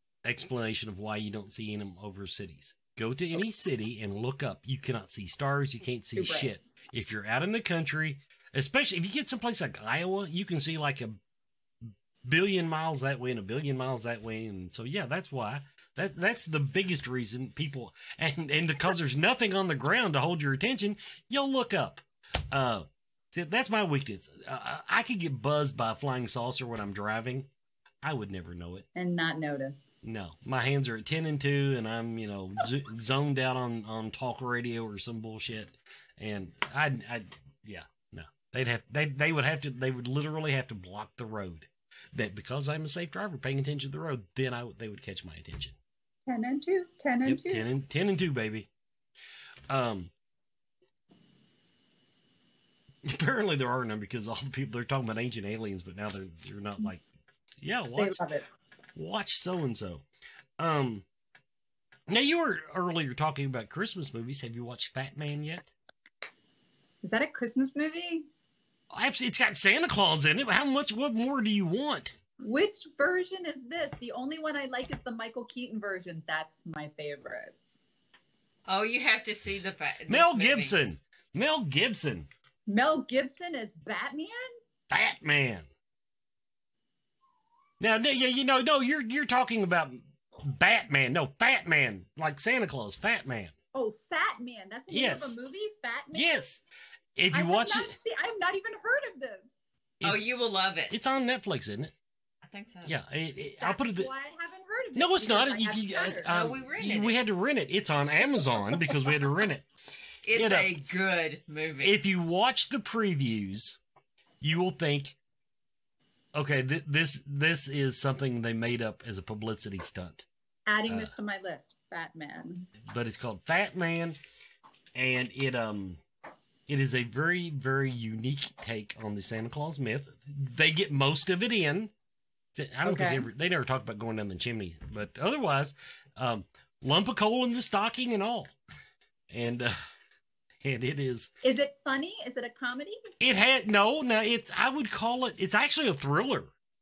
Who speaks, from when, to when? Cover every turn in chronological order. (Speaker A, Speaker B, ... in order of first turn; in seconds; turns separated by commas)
Speaker A: 0.2-11.2, Speaker B: 6.2-6.5, Speaker A: 12.2-27.5, Speaker A: 28.0-28.9, Speaker B: 28.9-29.8, Speaker A: 30.0-45.8, Speaker B: 46.3-47.7, Speaker A: 47.2-48.7, Speaker A: 49.7-50.1, Speaker A: 53.0-57.0, Speaker A: 57.6-58.2, Speaker B: 58.0-58.5, Speaker A: 59.0-60.0, Speaker A: 60.6-61.0, Speaker A: 62.1-65.7, Speaker B: 67.0-68.3, Speaker A: 68.9-72.2, Speaker B: 72.4-77.6, Speaker C: 78.7-80.8, Speaker A: 80.1-82.3, Speaker B: 82.7-84.5, Speaker A: 84.9-85.7, Speaker A: 87.8-93.5, Speaker B: 93.7-96.4, Speaker A: 94.9-95.4, Speaker A: 96.1-96.6, Speaker A: 97.2-97.9, Speaker B: 97.3-99.5, Speaker A: 100.0-100.3, Speaker C: 100.0-101.0, Speaker A: 100.9-101.9, Speaker C: 102.4-103.0, Speaker A: 102.8-104.1, Speaker B: 103.6-106.5, Speaker A: 105.0-109.7, Speaker C: 106.3-107.2, Speaker C: 110.3-112.0, Speaker A: 110.3-110.8, Speaker A: 111.8-113.8, Speaker A: 114.4-115.2, Speaker A: 116.3-120.2, Speaker B: 120.7-122.7, Speaker A: 120.9-121.1, Speaker A: 122.8-124.2, Speaker A: 125.0-126.0, Speaker A: 126.7-131.9, Speaker A: 132.5-138.5, Speaker B: 132.8-133.3, Speaker A: 139.3-139.8, Speaker A: 140.6-141.3, Speaker B: 141.4-143.1, Speaker A: 143.2-146.5